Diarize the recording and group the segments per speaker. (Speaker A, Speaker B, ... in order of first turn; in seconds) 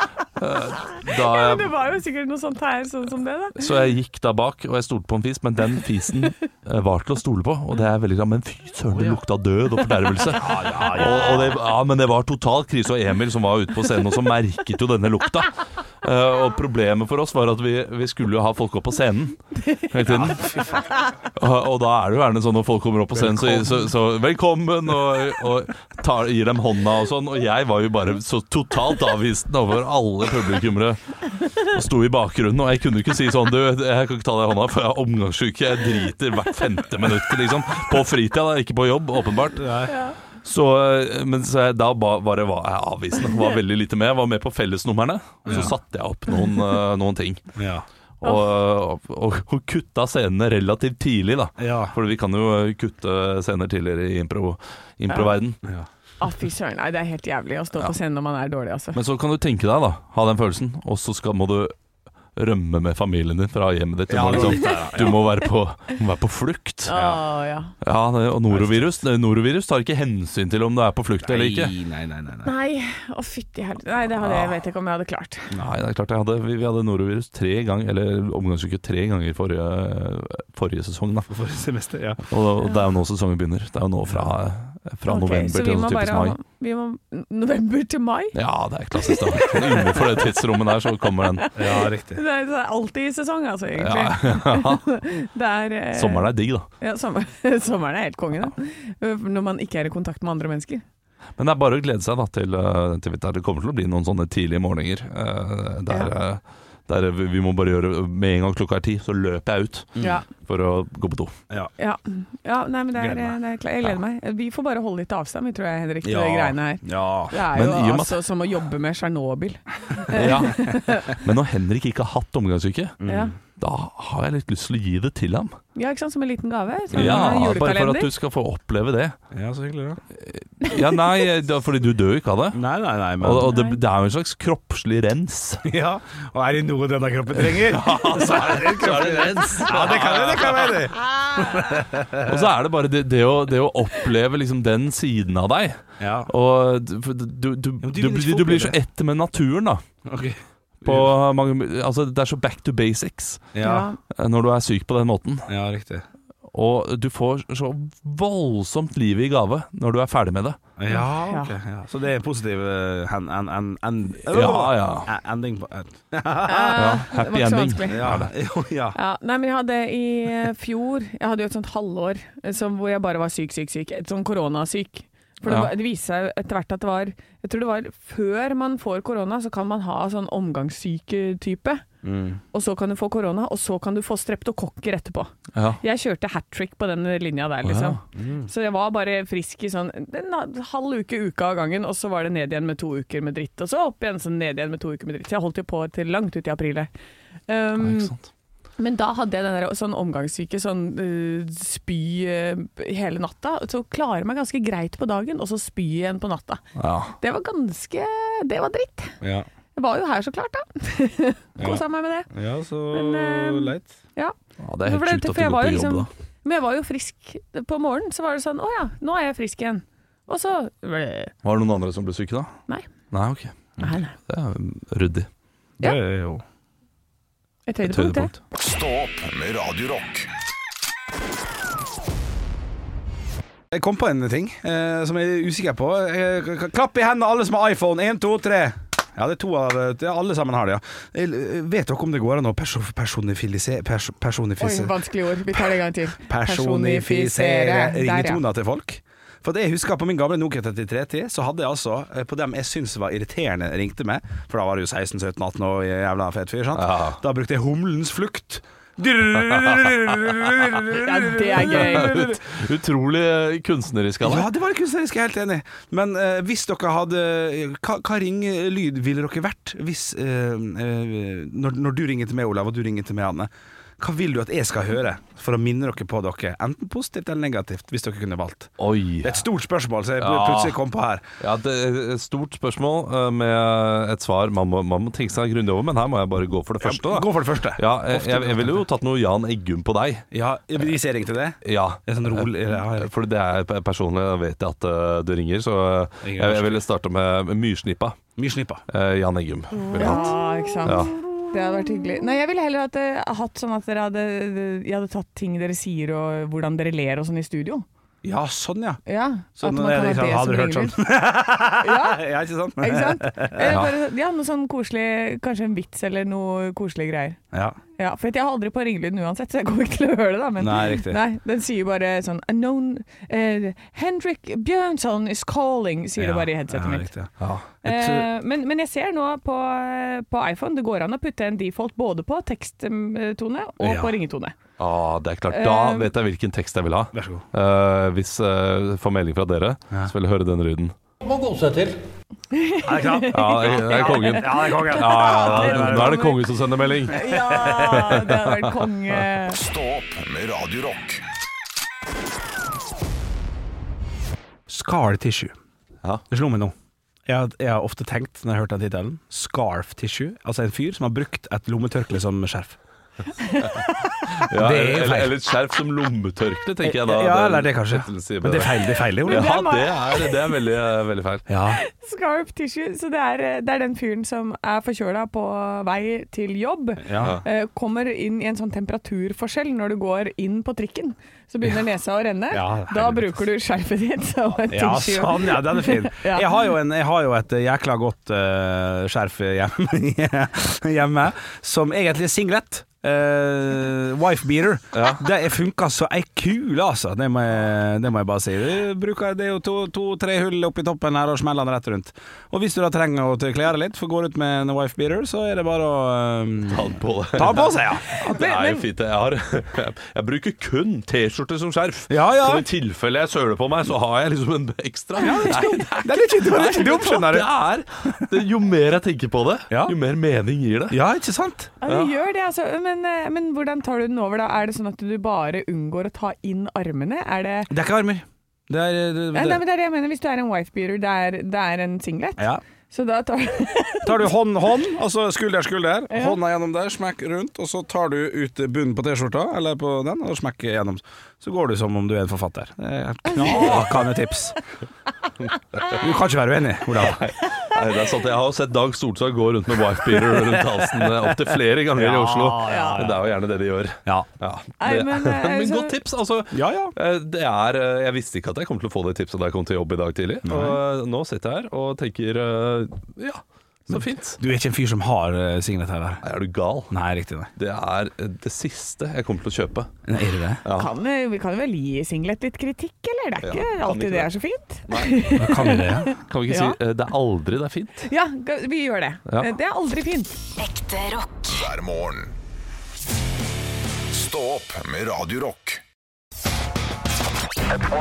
Speaker A: 0.3-1.7, 3.5-20.5, 21.4-39.7, 40.4-47.5, 48.2-55.6, 58.9-61.7, 62.3-67.0, 67.8-71.7, 74.2-74.5, 75.5-81.3, 82.3-86.4, 88.3-91.5, 93.8-94.8, 95.9-96.7, 101.4-111.3, 117.5-118.2, 120.1-123.0, 123.6-125.5, 126.9-129.2, 130.2-132.6, 133.2-135.6, 137.4-140.8, 142.2-149.8, 150.8-153.5, 154.1-155.5, 156.5-160.6, 164.3-165.1, 166.8-168.3, 175.4-175.7, 185.5-185.8, 187.6-188.0, 197.8-198.2, 206.8-207.1, 214.6-216.1, 221.4-222.6, 223.1-225.3, 227.8-228.4, 256.7-257.2, 261.6-264.5, 278.8-279.4, 280.2-280.8, 281.4-290.2, 291.6-298.2, 298.9-301.1, 313.6-313.9, 327.4-327.7, 334.8-341.9, 343.3-347.3, 347.9-348.9, 364.4-371.5, 377.2-377.4, 394.9-395.2, 406.7-421.0, 421.9-422.1, 443.4-444.0, 446.9-464.4, 466.2-466.9, 467.6-469.9, 470.6-470.9, 473.4-474.3, 474.9-478.1, 479.3-479.5
Speaker B: 0.9-3.7, 10.9-11.5, 39.9-40.1, 46.3-46.6, 56.2-59.0, 64.4-65.3, 66.9-67.7, 72.4-75.5, 85.1-88.3, 89.0-100.8, 110.0-110.2, 111.8-121.2, 123.0-123.3, 125.7-128.1, 133.4-133.8, 141.1-141.7, 153.6-154.0, 160.9-161.6, 166.4-168.1, 168.9-181.8, 182.5-196.9, 197.5-198.1, 198.8-206.6, 207.2-209.2, 209.7-212.3, 212.9-221.3, 223.8-224.2, 227.7-228.3, 244.6-248.4, 260.9-262.4, 299.9-307.9, 309.1-311.0, 311.8-312.2, 312.8-317.4, 318.0-327.1, 327.8-334.6, 335.5-336.1, 342.5-346.4, 347.1-349.6, 363.4-364.3, 369.2-370.5, 371.7-386.6, 408.1-408.8, 415.2-416.0, 421.8-427.7, 429.3-434.3, 436.1-436.4, 443.3-443.8, 447.4-447.8, 452.6-453.1, 454.8-456.0, 470.7-476.8, 478.1-480.4
Speaker C: 8.9-9.2, 10.2-11.6, 20.1-20.9, 23.1-23.9, 39.5-40.0, 45.5-45.7, 47.5-47.9, 51.6-52.0, 64.1-65.2, 66.9-67.2, 68.5-69.0, 71.2-72.5, 81.3-82.2, 91.5-92.2, 112.9-113.4, 116.0-117.4, 123.0-123.3, 126.9-127.3, 129.3-130.0, 132.5-133.5, 135.6-142.3, 146.0-146.3, 147.8-148.8, 150.1-151.1, 153.5-153.9, 155.5-156.1, 160.8-167.0, 167.9-169.0, 182.0-182.4, 188.1-188.5, 209.2-209.5, 211.6-213.9, 225.8-226.4, 233.7-244.9, 246.2-262.3, 264.2-278.7, 279.2-281.2, 286.8-288.8, 290.3-293.1, 296.2-296.8, 298.4-298.8, 300.0-301.1, 308.2-309.0, 309.6-313.8, 317.5-317.8, 320.6-321.2, 326.2-327.3, 327.8-328.3, 333.8-334.1, 337.1-337.4, 342.8-346.3, 347.1-348.2, 354.7-355.5, 356.3-356.7, 357.2-362.8, 364.5-365.3, 366.8-369.5, 371.5-371.8, 377.0-377.4, 382.5-383.4, 384.7-408.1, 412.1-412.6, 415.2-417.5, 419.7-419.9, 420.9-421.7, 427.7-429.6, 434.0-444.6, 446.0-447.2, 450.1-453.3, 456.5-456.9, 460.4-460.8, 463.9-466.2, 466.9-467.5, 470.1-470.6, 475.4-476.1
Speaker D: 228.5-230.3, 349.5-351.2, 481.3-482.3, 484.1-485.8